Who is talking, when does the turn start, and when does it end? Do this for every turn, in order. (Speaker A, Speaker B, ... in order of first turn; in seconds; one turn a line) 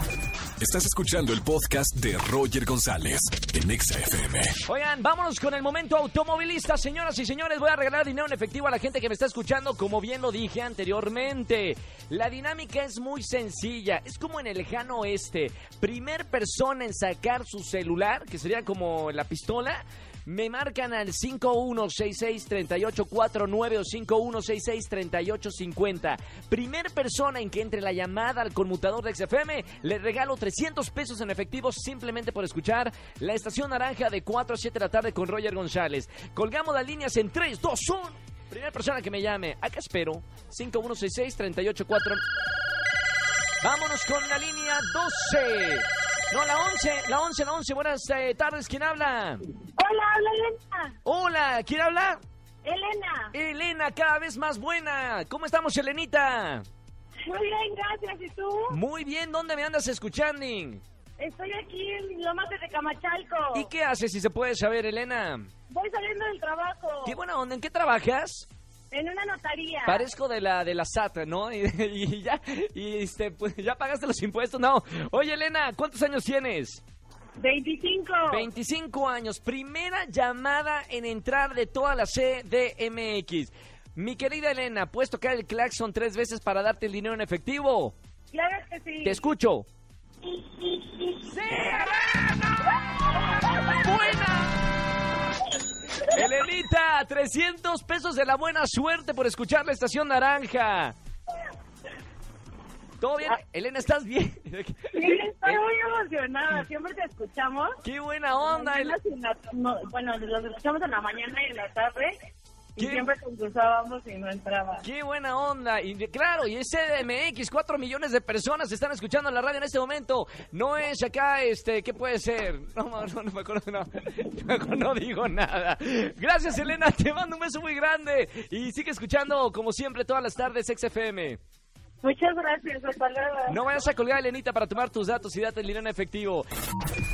Speaker A: 0.6-4.6
Speaker B: 4.7-42.2
Speaker B: 43.6-49.5
Speaker C: 49.7-50.9
Speaker B: 51.0-52.2
Speaker C: 52.6-53.3
Speaker B: 53.3-56.6
Speaker C: 57.2-58.8
Speaker B: 58.7-60.8
Speaker C: 61.2-63.7
Speaker B: 63.5-65.5
Speaker C: 65.7-67.2
Speaker B: 67.0-68.5
Speaker C: 68.9-70.1
Speaker B: 69.9-76.8
Speaker C: 77.4-78.4
Speaker B: 78.3-87.9
Speaker C: 88.3-89.2
Speaker B: 89.0-89.7
Speaker B: 91.2-92.6
Speaker B: 93.5-94.7
Speaker B: 96.0-100.9
Speaker B: 103.0-105.6
Speaker C: 104.9-107.8
Speaker B: 107.8-109.0
Speaker C: 108.4-112.1
Speaker C: 112.8-114.8
Speaker B: 112.8-113.1
Speaker B: 114.8-131.4
Speaker C: 132.0-133.7
Speaker B: 133.5-136.5